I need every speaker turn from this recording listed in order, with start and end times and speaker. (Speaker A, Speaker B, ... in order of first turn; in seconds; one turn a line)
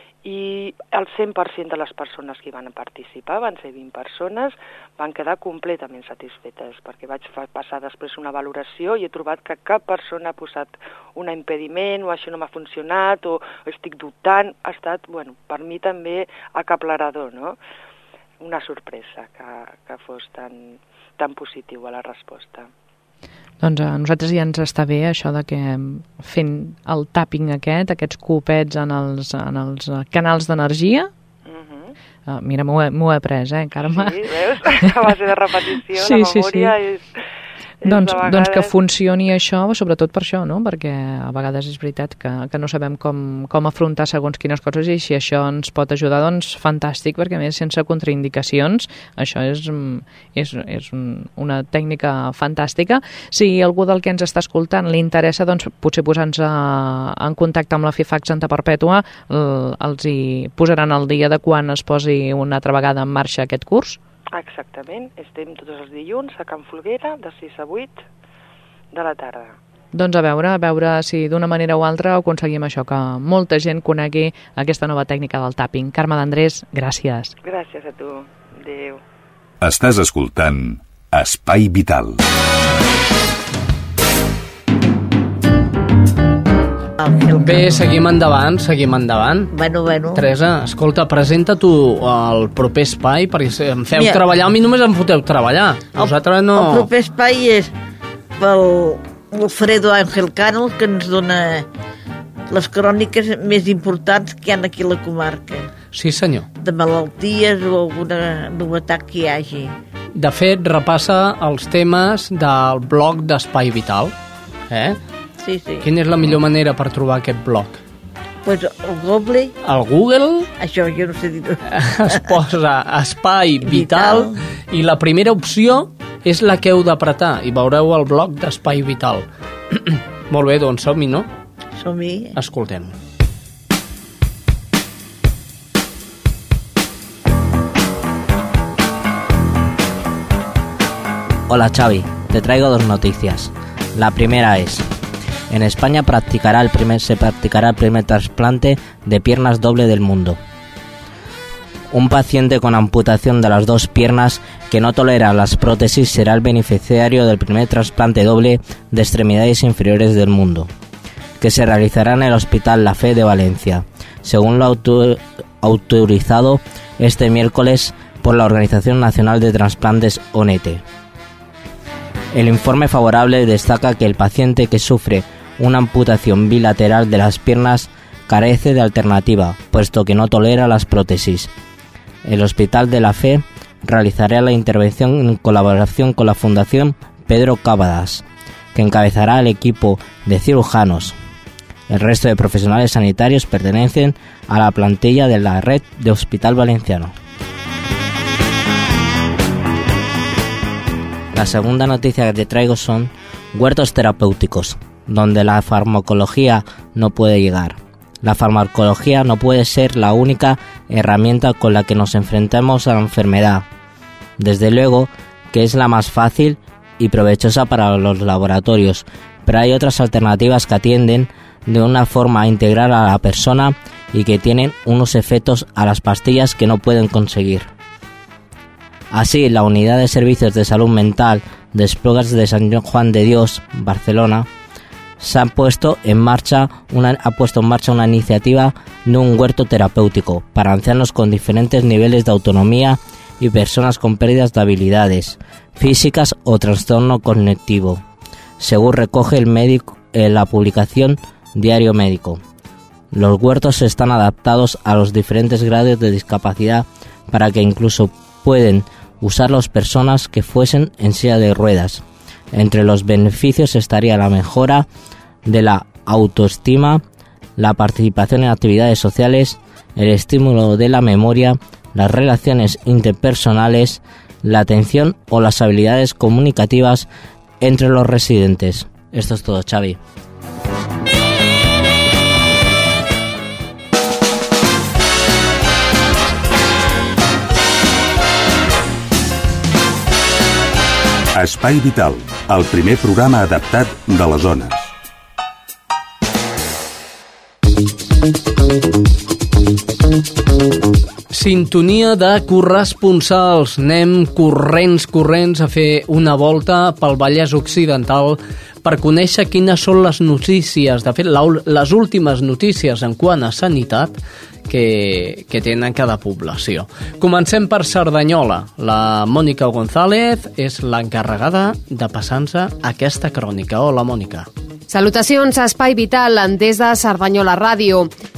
Speaker A: 0.2-17.6
Speaker A: 18.4-22.7
Speaker B: 23.6-31.1
Speaker A: 31.5-31.9
Speaker B: 32.3-34.2
Speaker A: 33.9-37.0
Speaker B: 35.9-36.7
Speaker A: 37.8-38.7
Speaker B: 37.9-64.0
Speaker A: 64.3-68.0
Speaker A: 68.9-69.6
Speaker B: 69.9-77.3
Speaker A: 77.4-79.0
Speaker C: 79.6-82.2
Speaker D: 87.0-87.7
Speaker E: 87.4-89.5
Speaker D: 89.5-90.2
Speaker E: 90.1-96.9
Speaker D: 96.0-97.7
Speaker D: 98.4-101.7
Speaker D: 102.5-105.7
Speaker E: 105.9-106.5
Speaker D: 106.6-109.8
Speaker E: 110.2-114.2
Speaker E: 114.7-115.0
Speaker D: 115.4-115.9
Speaker E: 115.8-117.8
Speaker D: 118.4-119.5
Speaker E: 119.6-120.5
Speaker D: 120.6-121.6
Speaker E: 121.7-131.3
Speaker D: 123.7-124.3
Speaker D: 131.8-132.3
Speaker E: 132.4-133.0
Speaker F: 141.5-144.8
Speaker F: 145.5-150.4
Speaker F: 151.9-160.7
Speaker F: 161.4-170.8
Speaker F: 172.3-181.5
Speaker F: 182.2-188.2
Speaker F: 188.8-191.2
Speaker F: 191.9-197.1
Speaker F: 201.3-213.7
Speaker F: 214.4-227.7
Speaker F: 229.1-234.5
Speaker F: 235.2-248.0
Speaker F: 248.6-252.4
Speaker F: 253.1-264.9
Speaker F: 265.5-267.0
Speaker F: 267.6-277.1
Speaker F: 277.6-280.0
Speaker C: 291.3-294.9
Speaker E: 301.3-324.5
Speaker G: 324.9-328.1